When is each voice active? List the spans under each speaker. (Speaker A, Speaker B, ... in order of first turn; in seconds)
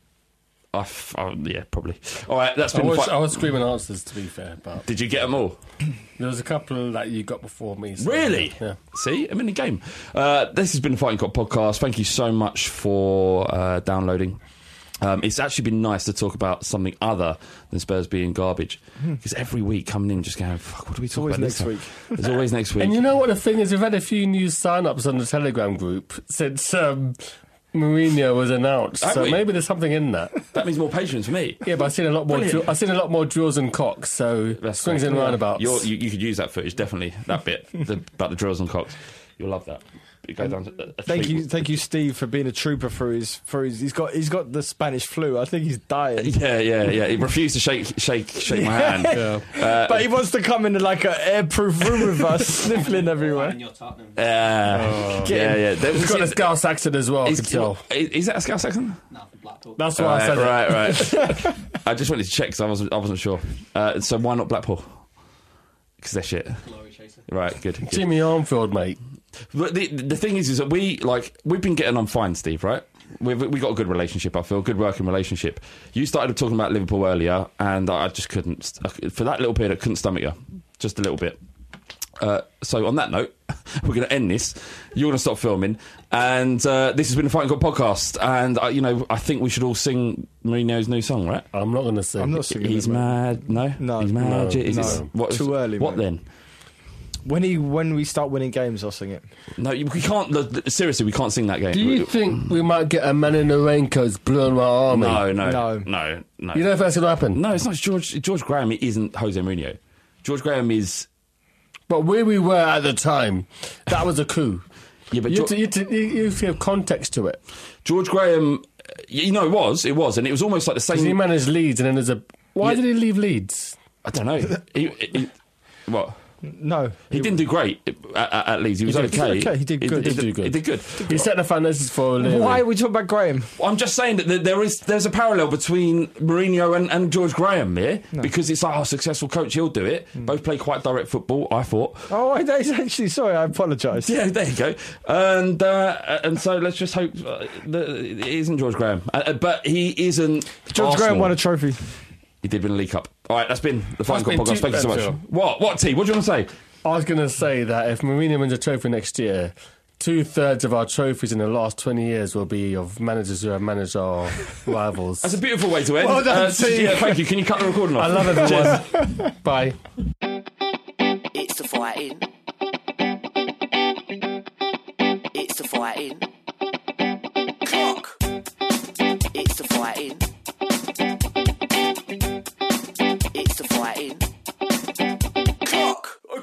Speaker A: 0.7-3.4, 4.8-5.6, 8.0-14.4, 15.0-23.0, 29.0-29.4, 30.5-31.7, 32.2-32.7, 34.6-41.5, 46.2-50.1, 54.1-56.4, 57.2-59.0, 59.9-65.1, 66.0-66.6, 67.3-68.1, 69.5-81.4, 82.2-91.5, 92.5-96.3, 99.5-102.4, 104.9-106.7, 107.3-111.1, 115.1-115.5, 117.8-121.2, 124.0-125.3, 125.9-126.2, 127.1-131.3, 133.6-142.1, 144.0-151.4, 152.4-156.5, 165.2-168.8
Speaker B: 2.7-4.8, 6.2-8.8, 22.8-30.4, 31.6-35.9, 49.1-49.4, 54.7-57.8, 59.8-61.2, 67.8-69.0, 91.5-92.4, 94.2-95.1, 101.7-105.3, 106.5-107.4, 111.9-114.7, 115.2-117.4, 120.9-123.8, 128.9-129.2, 129.8-132.6, 154.1-155.2, 156.8-165.4, 166.0-167.2, 167.9-169.8
Speaker C: 21.1-22.2, 41.0-46.3, 48.5-53.6, 55.2-55.6, 92.2-96.0, 97.2-99.3, 105.4-105.9, 126.4-127.4, 129.0-130.2, 132.2-133.5, 142.1-144.1, 150.7-151.8
Speaker D: 52.5-55.1, 59.1-60.5, 66.6-67.2
Speaker E: 171.3-172.3, 175.3-176.3, 179.3-180.2, 183.3-184.2, 185.7-186.0